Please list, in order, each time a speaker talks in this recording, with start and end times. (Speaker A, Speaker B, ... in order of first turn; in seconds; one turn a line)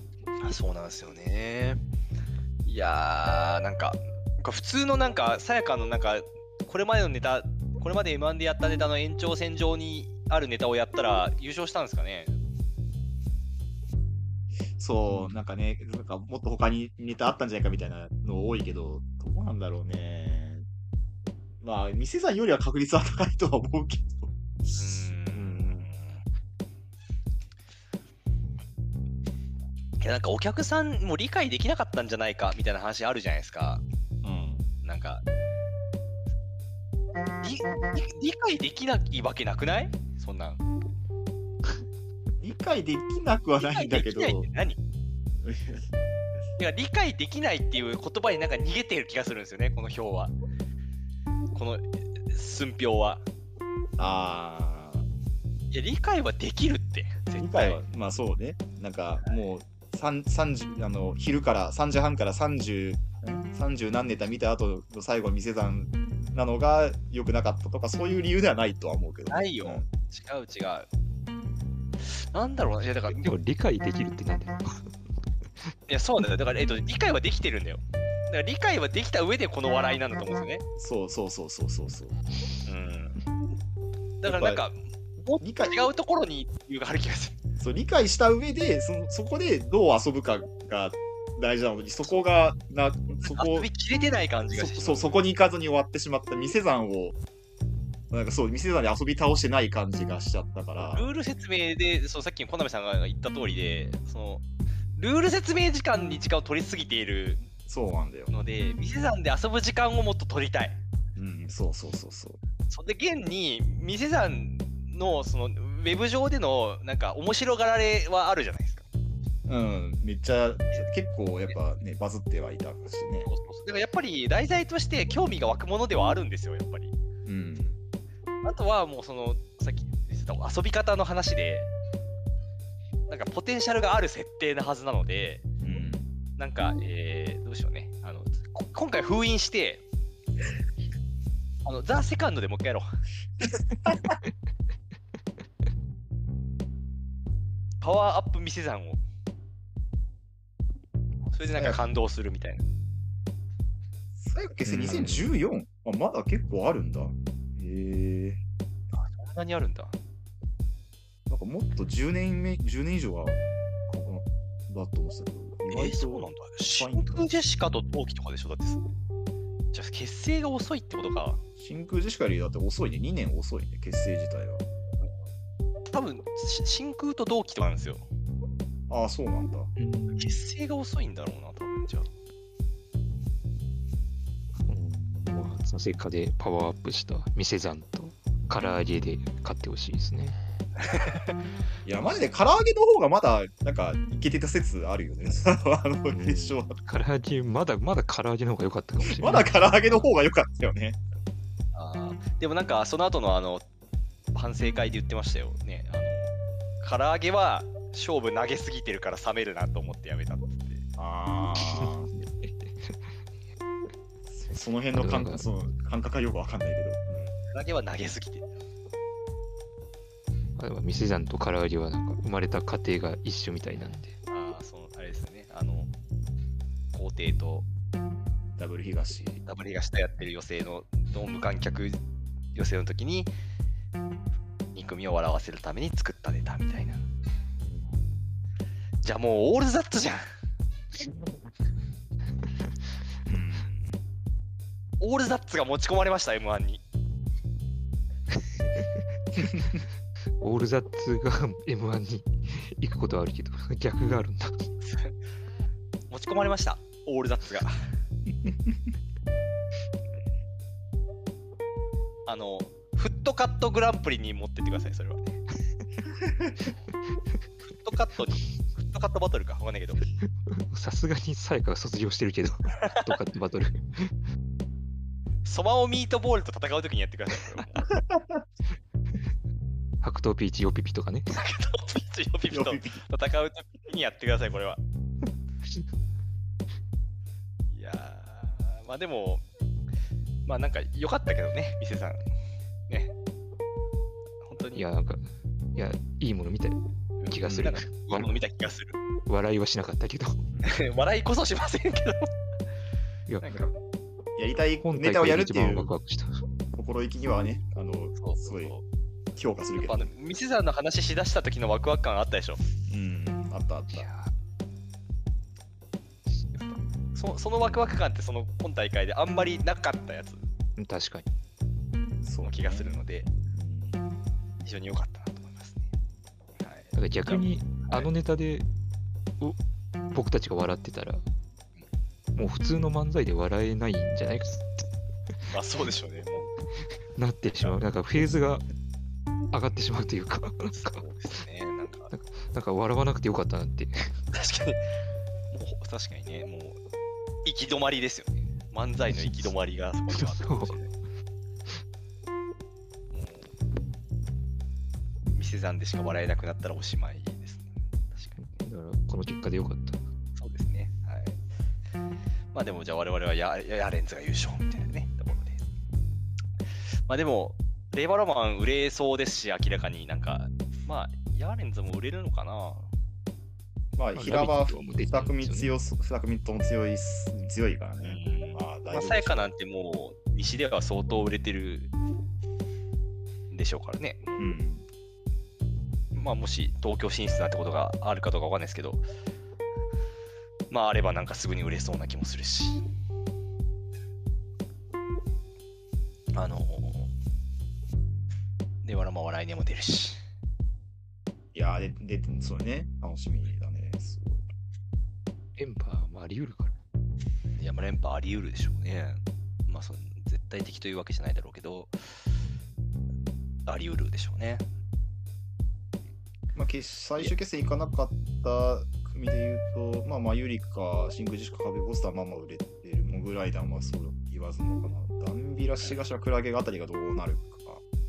Speaker A: 0.4-1.8
Speaker A: 2.6-12.4
Speaker B: 14.8-20.6
Speaker C: 15.1-15.3
Speaker B: 21.6-25.8
Speaker A: 24.8-26.2
Speaker A: 30.0-33.8
Speaker B: 34.2-34.7
Speaker A: 34.8-35.2
Speaker A: 37.4-40.6
Speaker B: 42.4-44.5
Speaker A: 43.6-44.8
Speaker B: 45.4-45.8
Speaker A: 46.6-50.4
Speaker A: 51.5-53.2
Speaker B: 54.0-55.1
Speaker A: 55.7-57.8
Speaker B: 57.4-69.9
Speaker A: 69.3-70.9
Speaker A: 72.0-73.3
Speaker C: 73.1-74.7
Speaker A: 75.9-80.6
Speaker B: 80.8-82.2
Speaker A: 82.7-83.2
Speaker A: 84.2-87.4
Speaker B: 84.2-84.6
Speaker B: 85.4-85.9
Speaker B: 87.6-93.7
Speaker A: 93.3-95.2
Speaker B: 94.5-97.2
Speaker B: 98.1-101.1
Speaker A: 100.8-104.5
Speaker A: 105.0-107.4
Speaker B: 107.6-108.3
Speaker A: 108.3-110.8
Speaker B: 111.2-112.4
Speaker A: 112.7-118.9
Speaker B: 119.5-123.3
Speaker A: 123.3-127.0
Speaker B: 127.2-127.8
Speaker A: 128.4-131.7
Speaker A: 133.1-135.5
Speaker B: 135.6-136.1
Speaker A: 136.4-139.8
Speaker A: 141.7-142.9
Speaker B: 143.9-144.2
Speaker A: 147.8-149.0
Speaker A: 151.3-152.7
Speaker B: 151.5-151.8
Speaker B: 154.2-158.4
Speaker C: 154.7-155.3
Speaker A: 158.9-160.0
Speaker B: 161.3-167.5
Speaker A: 165.7-168.8
Speaker A: 169.7-171.4
Speaker B: 171.6-174.7
Speaker A: 175.9-178.1
Speaker B: 178.9-179.7
Speaker C: 179.8-180.4
Speaker A: 180.1-182.1
Speaker C: 184.7-190.4
Speaker A: 190.8-191.3
Speaker B: 191.8-196.8
Speaker C: 196.1-199.9
Speaker B: 199.0-201.0
Speaker A: 201.7-203.7
Speaker A: 204.3-210.8
Speaker B: 211.0-212.1
Speaker C: 211.7-213.2
Speaker B: 214.3-217.3
Speaker C: 214.9-215.4
Speaker A: 217.5-218.5
Speaker C: 220.6-224.2
Speaker A: 224.3-225.9
Speaker A: 226.9-227.7
Speaker B: 228.6-229.4
Speaker A: 229.4-232.0
Speaker A: 232.6-233.3
Speaker A: 234.7-237.1
Speaker B: 237.7-237.9
Speaker A: 239.0-240.2
Speaker B: 243.3-244.0
Speaker A: 245.0-246.8
Speaker B: 249.4-249.8
Speaker C: 250.4-254.6
Speaker A: 254.8-255.2
Speaker A: 256.1-257.9
Speaker B: 258.4-258.7
Speaker A: 262.3-265.4
Speaker B: 266.2-266.5
Speaker A: 267.6-270.0
Speaker C: 270.6-274.1
Speaker A: 272.8-273.1
Speaker A: 275.4-277.9
Speaker B: 278.1-278.4
Speaker C: 280.0-281.3
Speaker A: 281.3-284.8
Speaker B: 282.5-283.0
Speaker A: 287.7-289.4
Speaker A: 290.5-292.2
Speaker A: 294.4-294.9
Speaker C: 294.7-298.3
Speaker A: 297.2-299.0
Speaker C: 299.3-300.4
Speaker A: 300.6-302.3
Speaker A: 303.4-303.8
Speaker B: 304.4-305.9
Speaker C: 304.8-306.3
Speaker B: 306.7-308.8
Speaker A: 308.2-308.8
Speaker B: 309.4-310.1
Speaker A: 309.8-312.6
Speaker B: 312.9-314.1
Speaker C: 313.9-314.3
Speaker A: 316.5-320.5
Speaker B: 317.6-318.0
Speaker C: 320.8-321.3
Speaker B: 322.2-324.1
Speaker A: 322.4-323.3
Speaker A: 324.6-325.9
Speaker A: 326.6-328.1
Speaker C: 326.9-328.7
Speaker C: 330.1-331.2
Speaker C: 332.4-334.9
Speaker A: 335.5-336.5
Speaker C: 337.1-338.6
Speaker C: 339.5-341.1
Speaker A: 340.8-342.1
Speaker C: 342.1-344.1
Speaker A: 344.3-344.9
Speaker A: 345.5-346.8
Speaker A: 347.4-350.9
Speaker C: 349.1-349.5
Speaker C: 350.1-350.8
Speaker A: 353.1-353.5
Speaker A: 355.3-358.6
Speaker C: 358.4-360.0
Speaker A: 360.4-361.4
Speaker A: 362.5-365.6
Speaker A: 367.1-372.9
Speaker B: 374.0-379.5
Speaker C: 374.1-375.7
Speaker A: 378.0-381.9
Speaker A: 383.5-384.5
Speaker B: 384.4-384.9
Speaker A: 386.1-389.1
Speaker A: 390.7-392.8
Speaker A: 396.3-397.1
Speaker A: 398.8-400.2
Speaker B: 401.5-404.4
Speaker C: 405.6-406.8
Speaker A: 407.6-412.0
Speaker A: 413.7-414.7
Speaker B: 416.6-427.8